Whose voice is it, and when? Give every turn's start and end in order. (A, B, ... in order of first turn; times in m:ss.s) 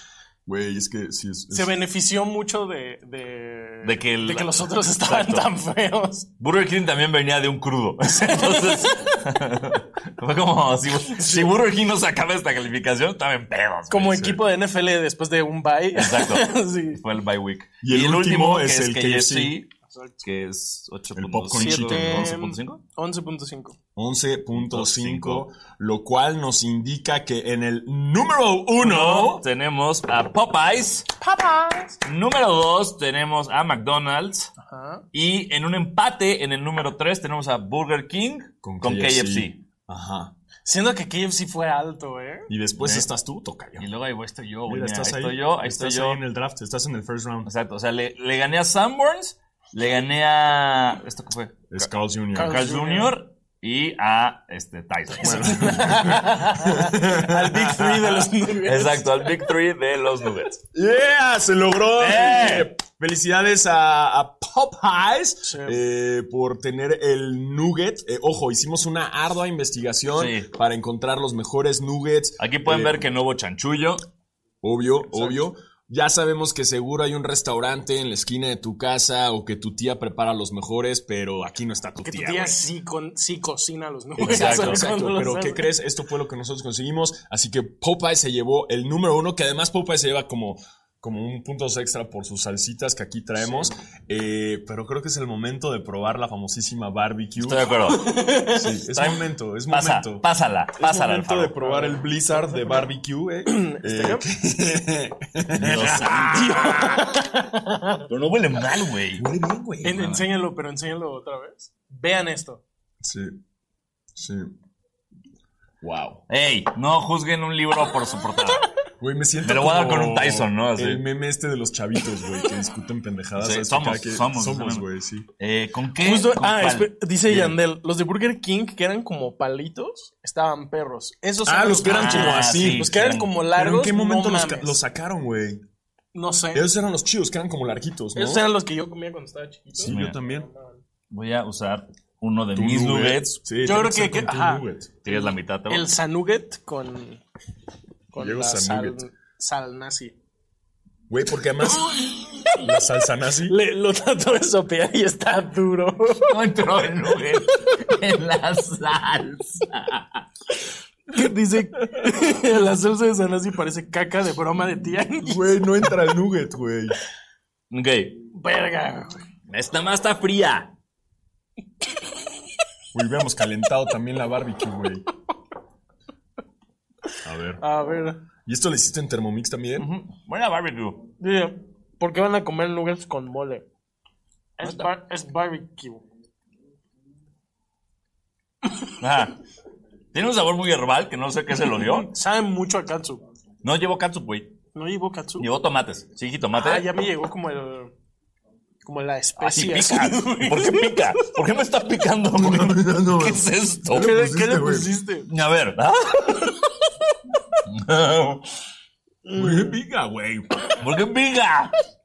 0:00.4-0:01.8 A
0:01.5-0:06.3 B
0:03.8-0:05.5 C
0:06.4-0:14.4 C
0:08.0-0:09.1 B
0:11.1-0:11.5 B
0:13.9-0:17.0 B
0:15.9-0:19.7 C
0:17.8-0:19.6 A
0:19.9-0:20.2 B
0:20.2-0:22.8 C
0:21.1-0:22.3 A
0:21.6-0:23.8 B
0:24.0-0:29.4 A
0:24.6-0:25.4 C
0:28.8-0:31.1 C
0:31.2-0:32.0 B
0:32.0-0:34.5 C
0:34.6-0:35.0 B
0:35.1-0:39.6 C
0:38.6-0:40.3 A
0:40.6-0:42.5 B
0:42.5-0:43.9 A
0:42.8-0:43.1 C
0:43.8-0:46.2 C
0:44.6-0:47.5 A
0:47.4-0:55.8 C
0:51.7-0:52.6 A
0:52.3-0:53.1 B
0:55.2-0:58.3 A
0:55.2-0:59.3 B
0:58.6-1:00.6 C
1:00.7-1:13.0 A
1:02.0-1:02.7 C
1:05.4-1:05.8 B
1:10.1-1:10.5 C
1:12.4-1:14.0 C
1:14.6-1:22.6 A
1:15.1-1:15.4 B
1:22.0-1:25.6 B
1:24.2-1:37.7 A
1:24.2-1:24.8 C
1:33.4-1:33.7 B
1:37.4-1:38.1 C
1:37.9-1:38.6 B
1:38.5-1:40.3 A
1:38.9-1:41.5 C
1:40.8-1:46.5 A
1:41.5-1:42.8 B
1:43.4-1:44.2 B
1:45.6-1:47.0 C
1:46.3-1:48.1 B
1:48.1-1:49.3 C
1:49.2-1:50.2 A
1:49.8-1:52.6 B
1:53.0-1:53.4 A
1:54.1-1:54.5 A
1:55.8-1:56.2 A
1:56.3-1:58.6 C
1:59.0-2:05.3 A
1:59.4-2:01.0 C
2:03.4-2:04.9 C
2:05.4-2:07.4 C
2:06.0-2:14.8 B
2:11.4-2:12.9 A
2:11.8-2:13.3 C
2:13.5-2:15.6 A
2:16.1-2:16.7 B
2:16.5-2:18.4 A
2:18.1-2:20.8 B
2:19.7-2:20.5 A
2:19.9-2:20.2 C
2:21.1-2:23.4 C
2:22.5-2:24.9 A
2:23.6-2:27.2 B
2:25.0-2:25.9 C
2:28.1-2:30.1 B
2:28.1-2:29.0 A
2:31.1-2:33.6 A
2:31.9-2:32.4 B
2:33.5-2:36.3 B
2:36.2-2:40.0 C
2:41.1-2:45.6 B
2:45.2-2:47.0 A
2:47.7-2:48.2 C
2:48.3-2:49.2 B
2:49.5-2:50.7 C
2:52.9-2:55.0 A
2:57.2-2:57.6 A
2:57.6-2:58.2 B
2:58.4-2:59.9 A
2:59.8-3:01.1 C
3:01.2-3:03.6 B
3:04.6-3:06.0 B
3:04.6-3:04.9 C
3:09.0-3:09.4 C
3:10.1-3:12.1 C
3:11.8-3:13.2 B
3:13.6-3:14.5 C
3:14.7-3:15.5 B
3:15.4-3:16.9 C
3:16.5-3:17.9 B
3:18.8-3:21.1 B
3:19.4-3:24.1 C
3:22.3-3:24.9 A
3:23.9-3:25.3 B
3:25.3-3:26.5 C
3:27.6-3:28.4 C
3:29.2-3:29.8 B
3:29.3-3:30.5 A
3:30.8-3:31.8 C